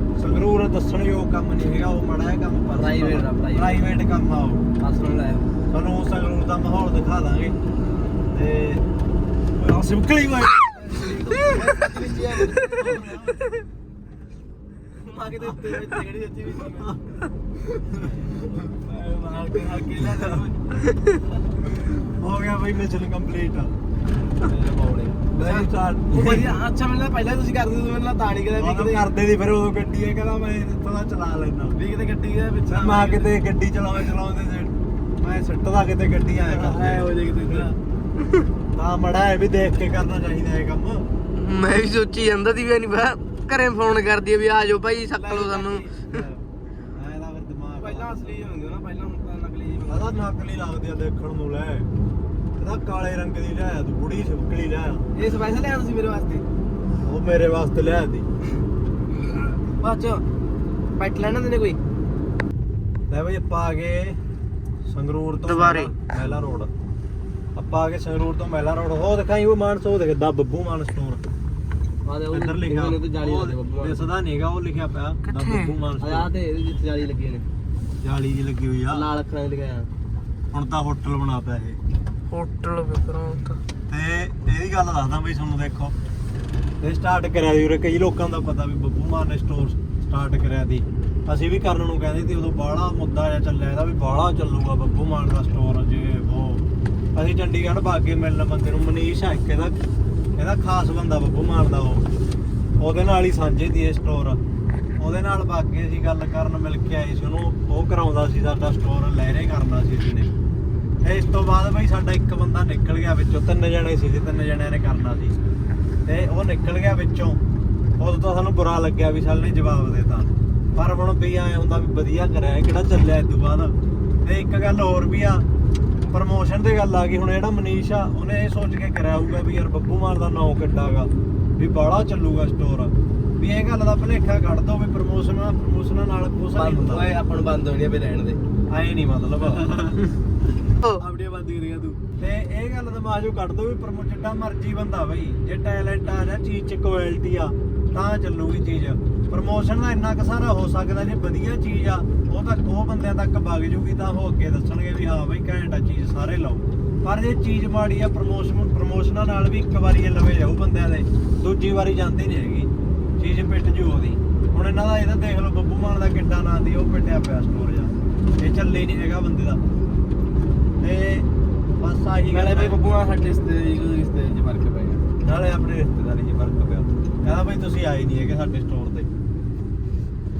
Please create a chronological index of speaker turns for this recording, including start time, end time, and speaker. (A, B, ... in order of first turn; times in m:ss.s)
0:00.2-0:04.6 A
0:02.7-0:03.9 B
0:04.8-0:05.5 B
0:05.7-0:07.6 A
0:07.8-0:08.3 B
0:08.3-0:08.8 A
0:09.6-0:13.5 A
0:10.8-0:13.2 B
0:15.0-0:17.2 B
0:17.7-0:21.5 B
0:21.8-0:23.8 A
0:24.4-0:29.1 B
0:24.7-0:26.6 A
0:28.6-0:31.8 A
0:31.7-0:33.4 B
0:32.7-0:37.8 A
0:36.4-0:37.7 B
0:38.7-0:41.0 A
0:41.3-0:46.2 C
0:45.1-0:46.1 B
0:46.1-0:48.4 A
0:47.8-0:50.3 B
0:49.9-0:51.9 A
0:52.6-0:55.1 A
0:55.1-0:56.4 B
0:57.0-0:58.2 A
0:59.3-1:00.2 B
1:01.0-1:01.8 B
1:03.1-1:04.2 A
1:04.8-1:06.7 A
1:05.5-1:06.0 C
1:06.1-1:06.6 B
1:07.6-1:11.2 A
1:12.0-1:14.1 B
1:12.3-1:16.3 A
1:15.2-1:15.8 C
1:16.0-1:17.5 B
1:18.0-1:19.0 A
1:18.9-1:19.9 B
1:20.5-1:21.8 A
1:22.3-1:23.6 C
1:23.9-1:25.9 A
1:26.8-1:36.6 A
1:37.1-1:39.8 A
1:40.4-1:42.0 A
1:42.8-1:44.4 A
1:45.0-1:50.3 A
1:51.0-1:55.4 A
1:56.0-1:57.4 A
1:58.0-2:05.4 A
2:06.1-2:17.1 A
2:16.5-2:18.4 B
2:18.7-2:20.1 A
2:20.9-2:22.0 B
2:22.2-2:49.6 A
2:50.8-2:51.3 A
2:51.8-2:52.8 A
2:52.3-2:55.0 B
2:55.2-2:59.1 A